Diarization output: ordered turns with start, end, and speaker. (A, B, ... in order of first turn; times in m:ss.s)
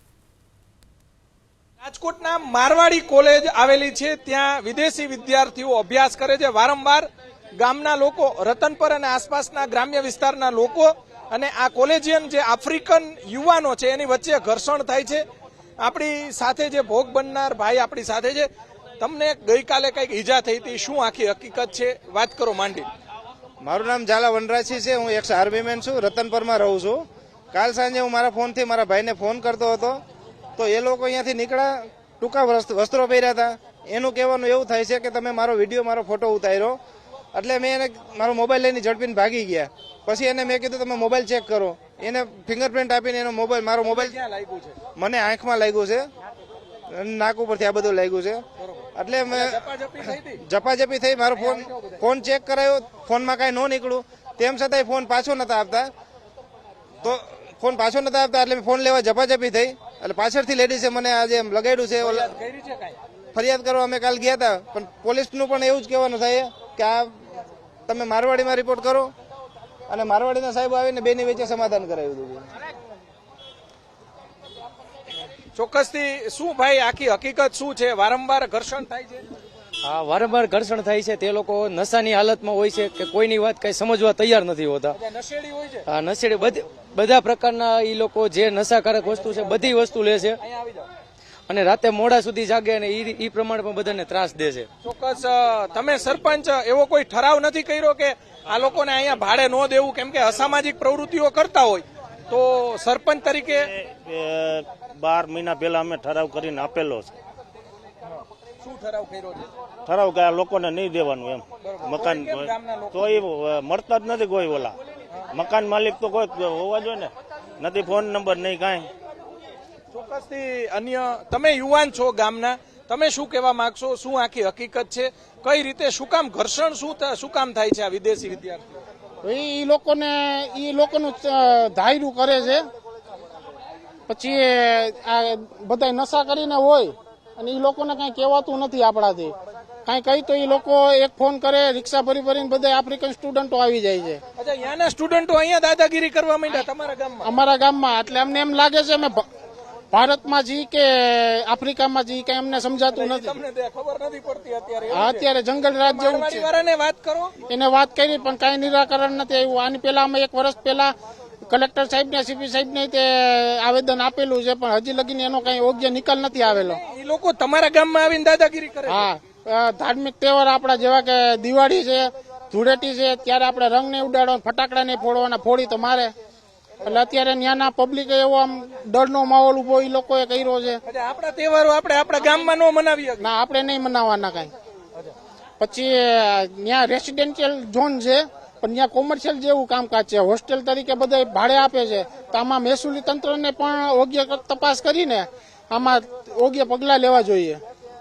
0:01.8-0:15.3 A
0:15.8-0:22.9 A
0:23.6-0:30.0 B
0:30.6-0:36.8 B
0:37.3-0:44.1 B
0:43.8-0:44.8 A
0:45.0-0:46.1 B
0:46.9-0:48.4 B
0:48.6-0:50.4 A
0:49.0-0:49.6 B
0:50.4-0:55.9 B
0:51.4-0:52.0 A
0:57.0-1:02.3 B
1:02.1-1:03.0 A
1:03.4-1:07.2 B
1:07.9-1:09.1 B
1:09.9-1:12.4 B
1:15.6-1:19.3 A
1:19.8-1:25.0 C
1:25.0-1:25.8 A
1:25.9-1:30.4 C
1:30.5-1:30.9 A
1:31.5-1:34.7 C
1:34.8-1:43.7 A
1:43.5-1:47.1 D
1:48.6-1:49.5 A
1:49.9-1:54.8 D
1:51.6-1:53.2 A
1:55.3-1:58.9 D
1:59.9-2:08.8 A
2:09.2-2:12.6 E
2:14.1-2:19.3 E
2:19.9-2:24.2 E
2:24.4-2:27.3 A
2:27.2-2:29.2 E
2:29.9-2:33.4 E
2:32.9-2:35.3 A
2:34.9-2:36.5 E
2:35.9-2:37.3 A
2:37.5-2:40.9 E
2:41.5-2:46.8 E
2:46.7-2:49.1 A
2:48.9-2:56.1 E
2:56.8-3:00.8 E
3:00.9-3:03.3 A
3:03.2-3:04.5 E
3:05.6-3:17.6 E